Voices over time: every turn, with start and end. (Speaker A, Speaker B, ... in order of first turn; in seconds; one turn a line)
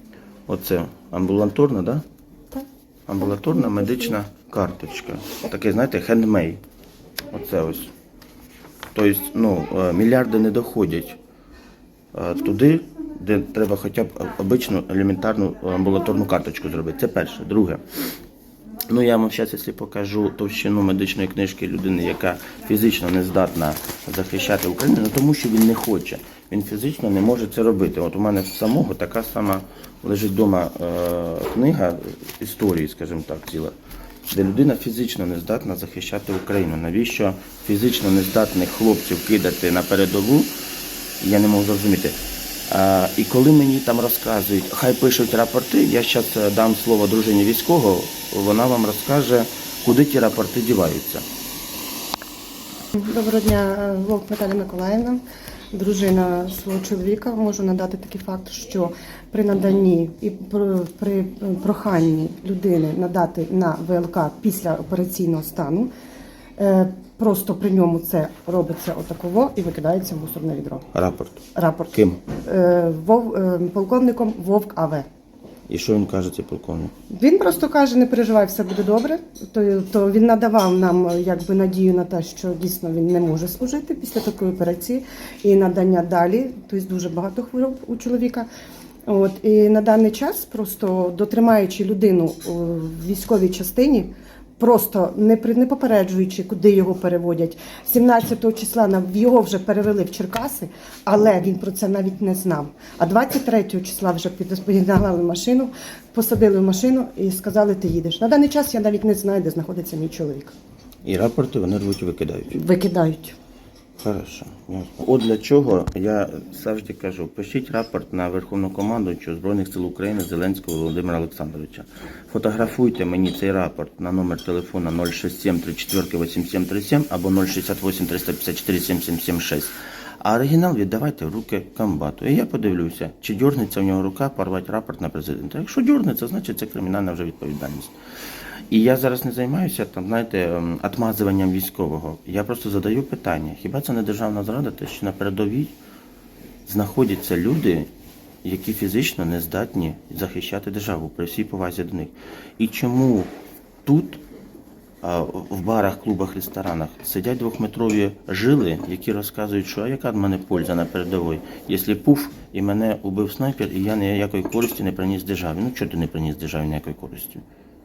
Speaker A: 0.5-2.0
Speaker A: 3.1-6.6
Speaker A: 7.3-7.9
Speaker A: 8.9-11.2
Speaker A: 12.1-17.8
Speaker A: 18.9-33.7
Speaker A: 34.3-40.5
Speaker A: 41.2-42.2
Speaker A: 42.7-51.2
Speaker B: 52.9-55.2
Speaker B: 55.7-65.9
Speaker B: 66.6-70.9
Speaker A: 70.9-71.4
Speaker B: 71.5-75.0
Speaker A: 71.9-72.2
Speaker A: 75.7-76.9
Speaker B: 77.1-88.5
Speaker B: 89.0-110.5
Speaker A: 111.0-112.6
Speaker B: 112.5-113.3
Speaker A: 114.0-137.9
Speaker A: 138.7-145.7
Speaker A: 146.7-147.9
Speaker A: 148.4-153.3
Speaker A: 153.8-154.2
Speaker A: 155.0-167.4